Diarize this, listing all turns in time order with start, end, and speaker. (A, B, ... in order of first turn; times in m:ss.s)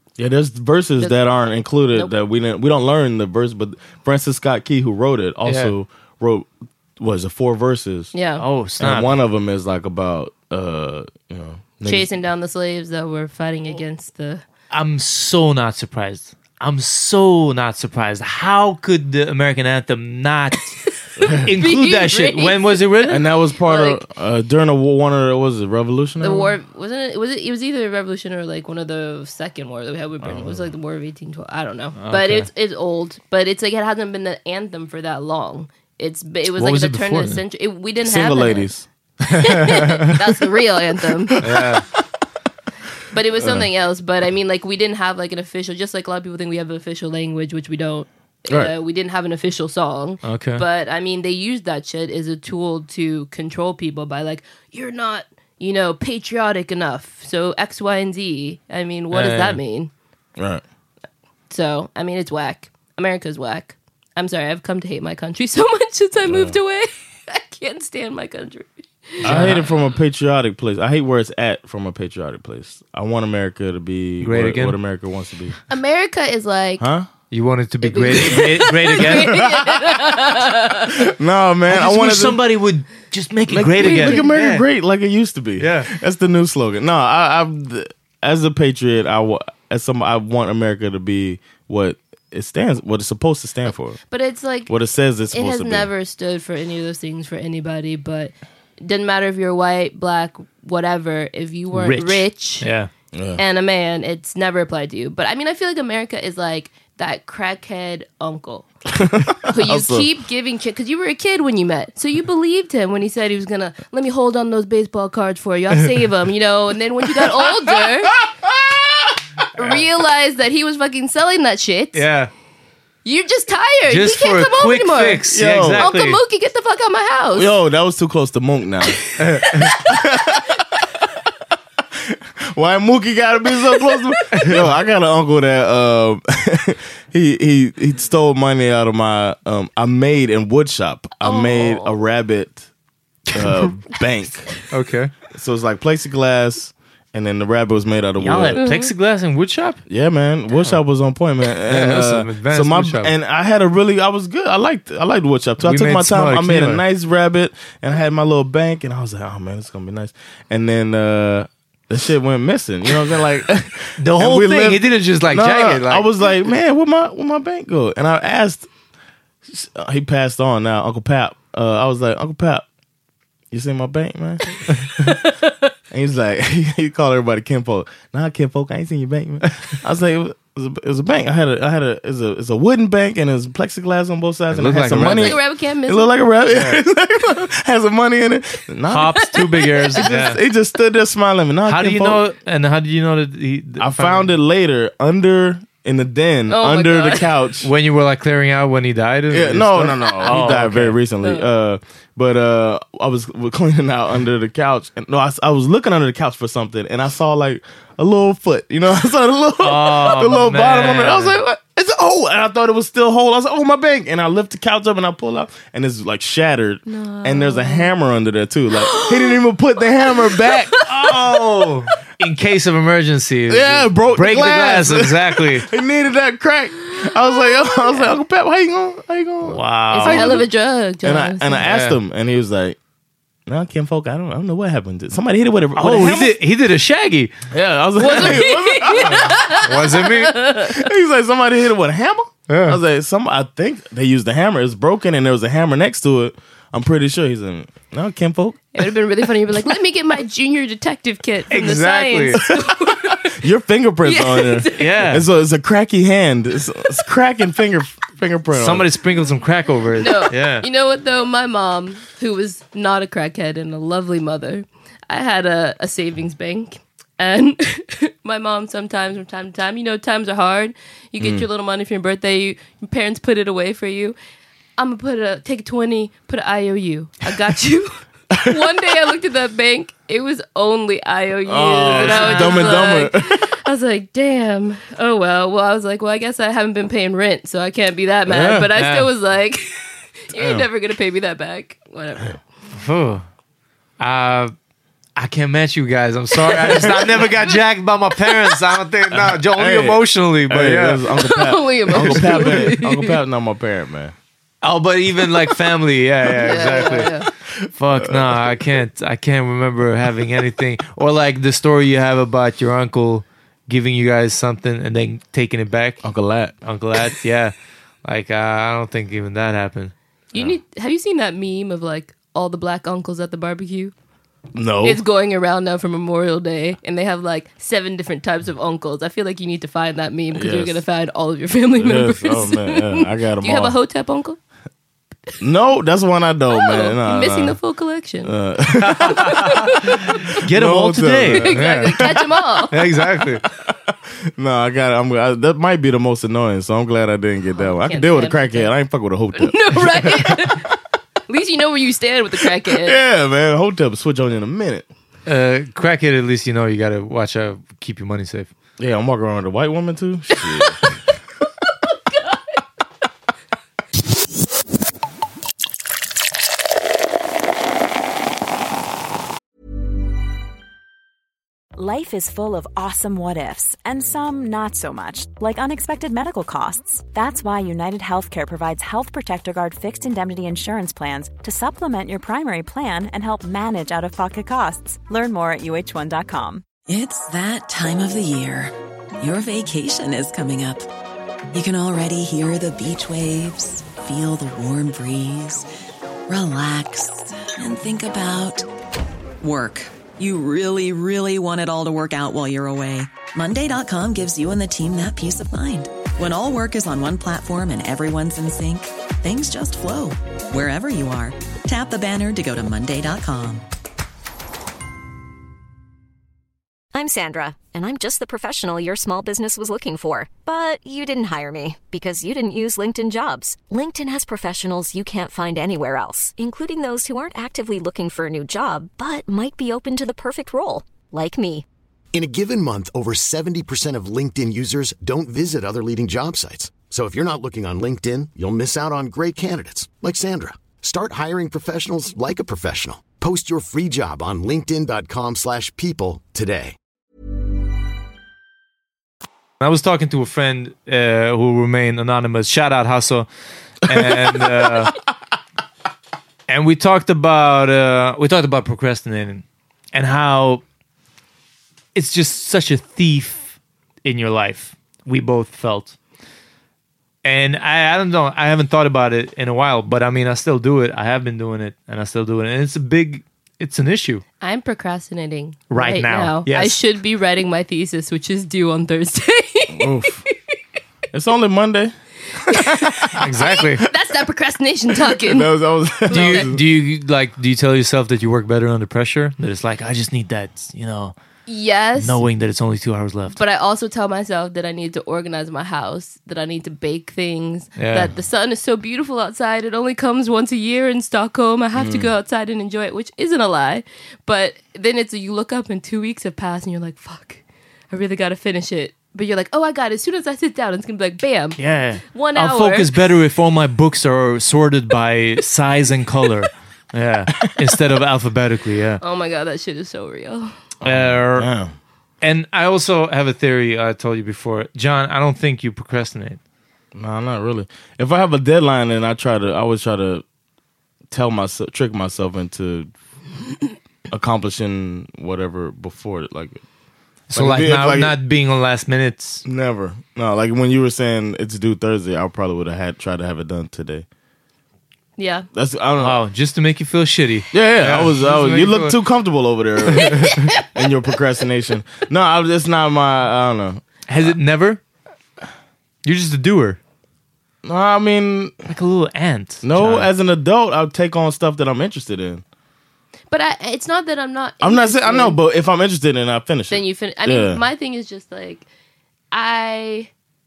0:00.2-0:08.1 A
0:05.4-0:05.8 B
0:08.1-0:08.4 C
0:08.4-0:09.2 B
0:08.8-0:12.2 A
0:11.8-0:14.4 C
0:14.7-0:23.2 B
0:21.2-0:24.0 C
0:23.1-0:26.5 A
0:26.2-0:38.7 C
0:30.2-0:30.7 A
0:32.0-0:32.5 B
0:36.6-0:37.4 B
0:38.0-0:38.9 A
0:39.3-0:41.4 C
0:41.4-0:41.6 A
0:41.4-0:41.8 B
0:43.1-0:59.9 C
0:43.4-0:43.7 A
0:50.2-0:50.6 B
0:59.1-0:59.6 B
1:00.4-1:00.6 A
1:01.5-1:09.6 C
1:06.3-1:06.6 A
1:09.2-1:15.6 A
1:09.2-1:09.7 B
1:14.2-1:14.8 B
1:15.7-1:16.8 C
1:16.8-1:17.1 A
1:17.3-1:19.4 B
1:17.8-1:21.0 C
1:19.0-1:20.4 A
1:21.0-1:22.4 A
1:21.7-1:24.6 B
1:23.5-1:34.0 A
1:23.8-1:24.3 C
1:25.6-1:25.9 B
1:34.1-1:34.7 C
1:34.7-1:35.9 A
1:35.3-1:42.7 C
1:41.7-1:42.9 B
1:43.1-1:43.4 A
1:43.4-1:48.7 C
1:48.9-1:50.1 A
1:49.5-1:58.2 C
1:57.1-1:59.1 A
1:59.6-2:02.0 C
2:01.9-2:02.3 B
2:03.0-2:07.5 C
2:03.9-2:06.2 B
2:05.3-2:05.9 A
2:07.3-2:09.2 A
2:09.2-2:09.7 B
2:09.7-2:10.6 A
2:12.0-2:22.7 A
2:13.9-2:14.4 C
2:14.3-2:14.6 B
2:21.2-2:22.0 C
2:23.3-2:24.6 A
2:23.4-2:23.7 B
2:24.7-2:25.1 B
2:25.3-2:28.6 A
2:28.2-2:29.8 B
2:28.6-2:28.9 C
2:29.9-2:48.7 A
2:31.7-2:33.1 B
2:35.6-2:36.8 B
2:44.0-2:46.1 B
2:49.5-2:52.6 A
2:53.5-2:55.4 A
2:55.9-3:12.2 A
3:04.5-3:05.4 B
3:05.0-3:06.2 C
3:06.5-3:06.8 B
3:08.9-3:10.4 B
3:09.8-3:10.1 C
3:11.7-3:14.3 B
3:13.8-3:17.7 A
3:16.5-3:17.3 C
3:17.6-3:21.0 B
3:19.3-3:40.8 A
3:20.1-3:20.3 C
3:29.6-3:31.4 B
3:36.9-3:37.9 C
3:38.7-3:39.4 C
3:40.1-3:41.2 C
3:40.8-3:45.7 B
3:43.5-3:50.5 A
3:47.3-3:48.1 C
3:49.4-3:50.4 B
3:49.9-3:51.6 C
3:51.0-3:52.8 A
3:51.6-3:52.0 B
3:53.5-3:56.3 A
3:55.8-3:57.3 B
3:57.5-3:59.6 A
3:58.0-4:00.8 C
3:58.1-3:58.4 B
3:59.0-4:00.4 B
4:00.7-4:08.7 A
4:02.5-4:02.8 B
4:08.7-4:13.3 C
4:11.5-4:12.4 B
4:13.4-4:18.9 A
4:14.0-4:14.9 C
4:14.8-4:15.3 B
4:18.5-4:20.6 B
4:20.0-4:34.2 C
4:31.2-4:31.5 A
4:34.8-4:52.4 C
4:41.5-4:43.5 A
4:41.9-4:43.0 B
4:48.3-4:48.7 A
4:48.8-4:49.1 B
4:50.4-4:50.7 A
4:52.7-4:53.2 B
4:54.0-4:54.5 B
4:55.2-5:01.1 B
4:56.5-4:57.3 A
4:59.1-5:04.2 A
5:01.2-5:03.2 C
5:02.0-5:02.7 B
5:04.6-5:07.1 B
5:06.4-5:07.3 C
5:07.7-5:16.0 B
5:16.0-5:16.5 A
5:16.6-5:20.5 B
5:20.3-5:23.9 C
5:24.5-5:25.0 A
5:24.8-5:34.4 C
5:30.3-5:30.8 A
5:31.8-5:33.8 A
5:35.4-5:37.6 A
5:36.5-5:38.3 C
5:38.2-5:39.5 A
5:38.9-5:43.4 B
5:38.9-5:40.4 C
5:40.1-5:42.2 A
5:41.3-5:42.8 C
5:43.7-5:50.6 A
5:47.6-5:48.7 C
5:49.4-5:50.7 C
5:51.3-5:53.0 C
5:52.7-5:54.9 A
5:55.3-5:58.5 B
5:58.8-6:00.8 A
6:11.8-6:26.7 D
6:26.9-6:30.9 E
6:31.5-6:35.7 E
6:36.3-6:38.7 E
6:39.4-6:53.6 E
6:56.9-7:11.6 F
7:12.1-7:26.8 G
7:29.6-7:33.3 B
7:33.8-7:34.9 B
7:34.4-7:34.7 A
7:36.5-7:40.6 B
7:42.0-7:46.0 B
7:47.2-7:54.2 B
7:54.4-8:00.0 C
7:55.7-7:56.8 B
7:59.7-8:00.2 A
8:01.1-8:03.2 A
8:02.5-8:05.5 C
8:03.2-8:03.8 B
8:05.1-8:06.6 A
8:06.1-8:06.5 C
8:06.1-8:11.2 B
8:11.5-8:12.2 C
8:12.0-8:13.4 B
8:13.4-8:31.6 C
8:17.8-8:18.1 B
8:21.8-8:22.1 A
8:31.6-8:39.0 B
8:32.1-8:32.9 C
8:39.0-8:40.5 C
8:40.8-8:41.7 A
8:40.8-8:41.5 B
8:42.2-8:46.4 B
8:46.9-8:50.2 A
8:51.1-8:52.9 A
8:54.1-8:56.6 A
8:57.3-8:59.4 B
8:57.3-8:58.1 A
8:59.4-9:04.1 A
9:05.2-9:05.5 C
9:05.5-9:06.2 A
9:06.0-9:09.0 B
9:07.5-9:14.4 A
9:09.9-9:10.3 B
9:14.1-9:14.8 B
9:16.0-9:16.8 B
9:17.6-9:18.6 A
9:18.7-9:20.1 B
9:19.6-9:22.4 A
9:23.3-9:25.4 C
9:24.6-9:27.6 A
9:26.7-9:28.7 C
9:29.3-9:30.1 C